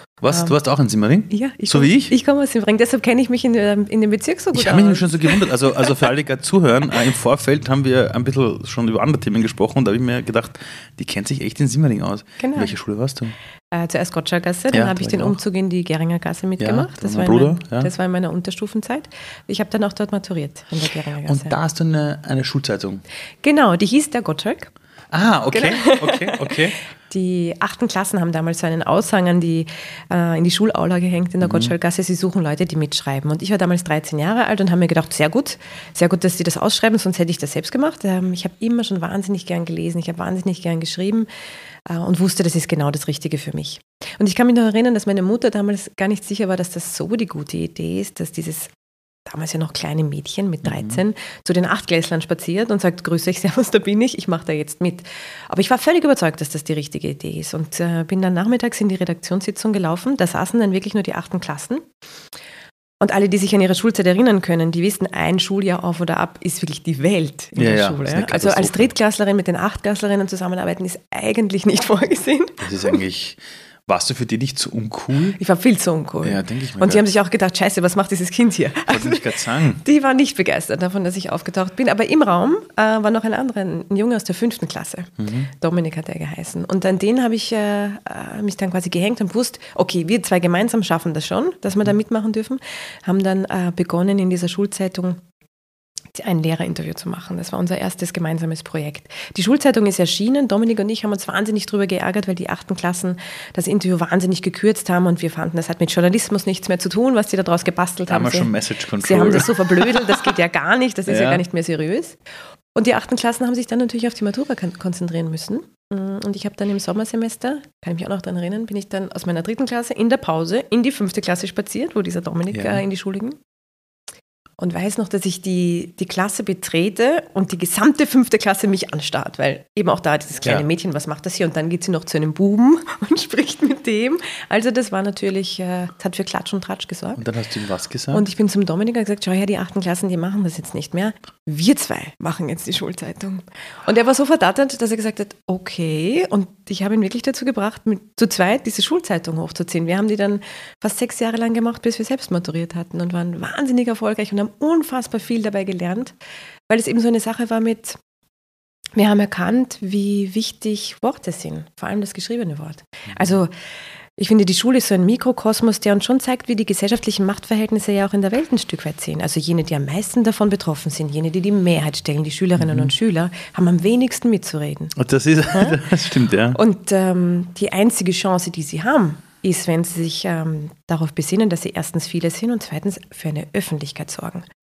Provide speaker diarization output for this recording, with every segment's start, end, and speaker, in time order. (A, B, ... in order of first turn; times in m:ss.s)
0:00.2-0:02.1 A
0:00.3-0:00.6 B
0:01.3-0:05.9 B
0:04.5-0:13.4 A
0:12.4-0:12.8 B
0:13.7-0:21.6 B
0:14.7-0:15.4 A
0:16.6-0:17.9 A
0:21.2-0:23.0 A
0:23.4-0:24.7 B
0:25.1-0:26.8 A
0:25.5-0:41.3 B
0:31.4-0:31.7 A
0:41.9-0:48.7 B
0:49.3-1:01.9 B
0:50.6-0:51.0 A
1:03.0-1:13.0 B
1:07.6-1:08.9 A
1:12.6-1:15.4 A
1:15.4-1:35.2 B
1:16.2-1:17.0 A
1:18.9-1:19.8 A
1:25.2-1:25.5 A
1:36.1-1:52.2 B
1:48.1-1:50.4 A
1:51.1-1:51.4 A
1:52.8-2:03.4 B
2:02.5-2:02.8 A
2:04.6-2:17.2 B
2:17.2-2:18.2 A
2:18.1-2:36.2 B
2:36.7-2:38.0 B
2:39.0-2:43.5 B
2:44.2-2:54.9 B
2:52.6-2:52.9 A
2:55.0-2:56.6 A
2:55.5-2:55.8 B
2:56.5-3:04.5 B